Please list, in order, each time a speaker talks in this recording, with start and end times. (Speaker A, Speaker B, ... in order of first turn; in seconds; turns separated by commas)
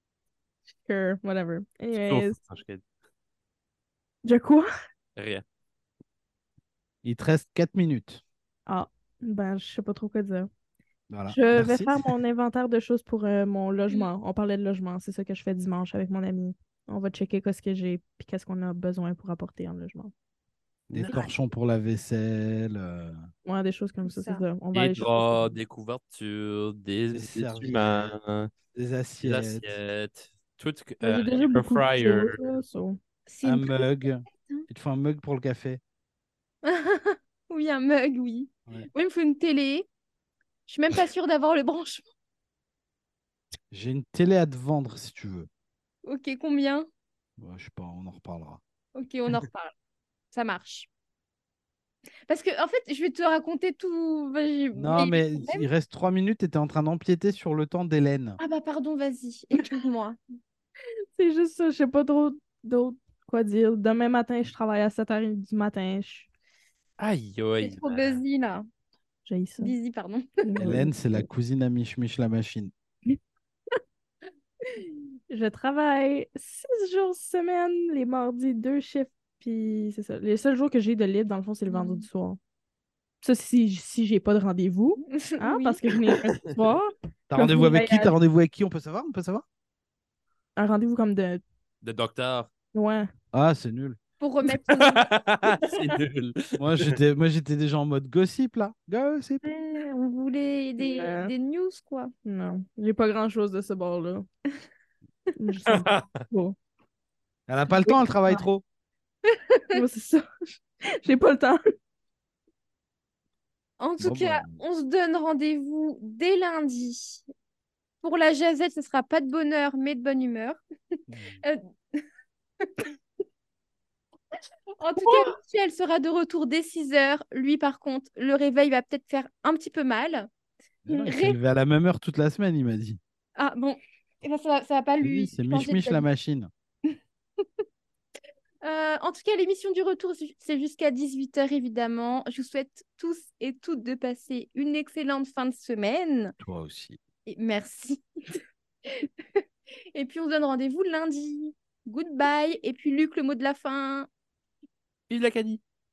Speaker A: 0.8-2.4, Speaker B: 1.9-2.8, Speaker A: 4.2-4.7, Speaker B: 5.2-5.4, Speaker C: 7.0-8.2, Speaker A: 8.7-10.5, Speaker C: 11.1-12.1, Speaker A: 11.3-20.1, Speaker B: 20.9-21.3, Speaker C: 20.9-23.2, Speaker A: 23.4-25.6, Speaker D: 24.0-24.4, Speaker B: 24.7-28.5, Speaker C: 27.1-28.1, Speaker C: 28.7-29.7, Speaker B: 29.2-32.4, Speaker A: 31.0-33.0, Speaker D: 33.3-34.6, Speaker C: 33.4-35.8, Speaker D: 36.6-39.9, Speaker D: 40.7-42.0, Speaker C: 43.7-45.5, Speaker D: 46.0-46.9, Speaker C: 47.4-48.6, Speaker D: 48.9-49.7, Speaker D: 50.3-50.9, Speaker D: 52.3-55.7, Speaker C: 54.7-58.4, Speaker D: 58.4-60.2, Speaker A: 61.2-66.3, Speaker B: 67.0-68.2, Speaker D: 67.6-68.7, Speaker A: 69.2-69.7, Speaker D: 69.6-70.6, Speaker A: 70.4-71.3, Speaker C: 70.6-72.7, Speaker A: 74.8-82.4, Speaker D: 81.7-82.1, Speaker A: 83.2-88.1, Speaker D: 85.1-85.8, Speaker C: 87.3-89.4, Speaker A: 90.6-91.4, Speaker B: 91.8-92.5, Speaker A: 92.7-93.1, Speaker C: 93.3-94.0, Speaker D: 94.2-95.8, Speaker B: 94.6-97.0, Speaker C: 96.5-99.4, Speaker D: 99.4-102.1, Speaker A: 100.8-101.3, Speaker A: 102.2-104.3, Speaker A: 105.4-106.5, Speaker B: 105.6-106.2, Speaker C: 107.5-108.6, Speaker A: 107.9-108.4, Speaker D: 109.5-109.8, Speaker A: 109.7-110.3, Speaker A: 111.0-111.6, Speaker D: 113.8-117.2, Speaker C: 114.0-114.6, Speaker D: 118.0-120.6, Speaker C: 121.1-121.4, Speaker D: 121.4-122.0, Speaker D: 124.8-130.3, Speaker C: 130.8-133.0, Speaker D: 130.9-131.4, Speaker D: 133.4-136.1, Speaker C: 135.0-136.5, Speaker D: 138.6-146.3, Speaker C: 146.4-147.0, Speaker D: 147.3-148.0, Speaker D: 149.9-154.1, Speaker B: 155.1-155.6